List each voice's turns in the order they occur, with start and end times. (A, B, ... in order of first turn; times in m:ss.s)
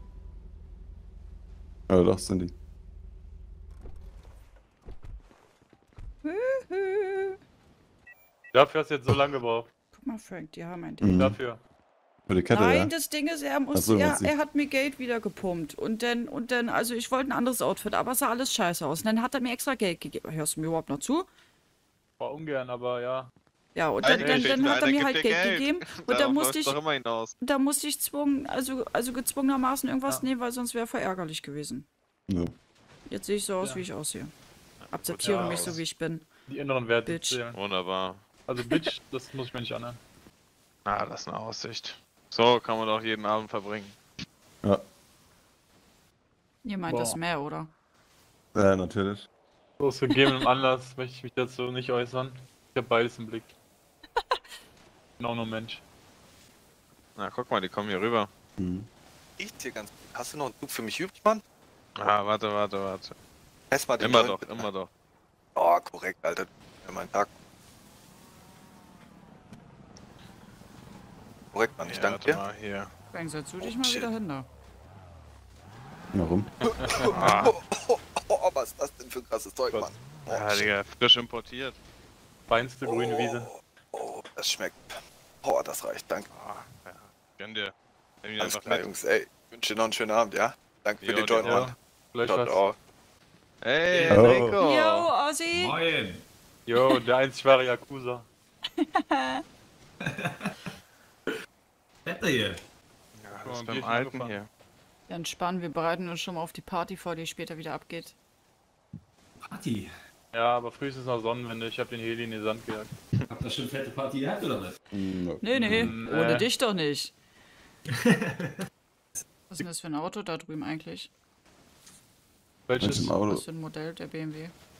0:01.9-0:02.5 A
0:06.2-0:07.4 B
0:08.5-0:09.7 C
0:09.9-0:11.1 B
0:11.0-0:11.4 A
0:11.1-0:11.6 C
0:12.3-0:12.9 A
0:12.5-0:21.3 B
0:13.7-0:14.3 A
0:22.2-0:23.3 C
0:23.7-0:26.8 B
0:24.0-0:27.3 D
0:24.2-0:24.5 C
0:27.4-0:31.9 B
0:32.3-0:32.5 A
0:33.1-0:34.3 B
0:34.8-0:35.8 D
0:34.9-0:36.3 B
0:35.2-0:35.8 C
0:36.5-0:37.6 C
0:37.0-0:37.4 B
0:37.5-0:38.3 D
0:38.4-0:40.0 C
0:40.8-0:44.0 D
0:46.6-0:47.7 B
0:46.9-0:47.2 C
0:48.5-0:49.2 A
0:49.8-0:53.5 C
0:55.2-0:55.8 C
0:57.2-0:58.3 D
0:58.6-0:58.9 A
0:59.4-1:01.4 E
1:02.0-1:03.1 D
1:03.7-1:04.6 E
1:04.0-1:04.9 D
1:05.6-1:07.3 E
1:11.5-1:12.4 E
1:11.8-1:12.9 D
1:13.1-1:14.4 B
1:13.6-1:14.1 E
1:16.1-1:16.5 A
1:16.7-1:20.7 E
1:17.1-1:17.6 D
1:20.3-1:21.8 D
1:22.5-1:23.5 C
1:22.8-1:26.2 E
1:26.3-1:27.7 D
1:28.2-1:28.9 D
1:28.4-1:32.8 E
1:31.0-1:31.6 D
1:31.3-1:32.6 C
1:33.6-1:35.1 D
1:33.9-1:34.2 F
1:34.1-1:34.6 A
1:34.6-1:35.8 B
1:35.5-1:36.2 F
1:36.7-1:38.3 C
1:38.8-1:39.4 B
1:40.0-1:40.7 F
1:42.0-1:42.6 F
1:43.2-1:44.5 D
1:43.4-1:44.4 C
1:45.1-1:48.2 B
1:49.4-1:49.9 F
1:50.3-1:52.9 C
1:53.3-1:54.8 F
1:54.9-1:56.0 A
1:55.4-1:57.1 B
1:55.7-1:56.5 C
1:57.9-1:58.7 F
1:59.5-2:01.1 B
2:02.7-2:03.2 C
2:02.8-2:03.4 A
2:03.2-2:04.5 B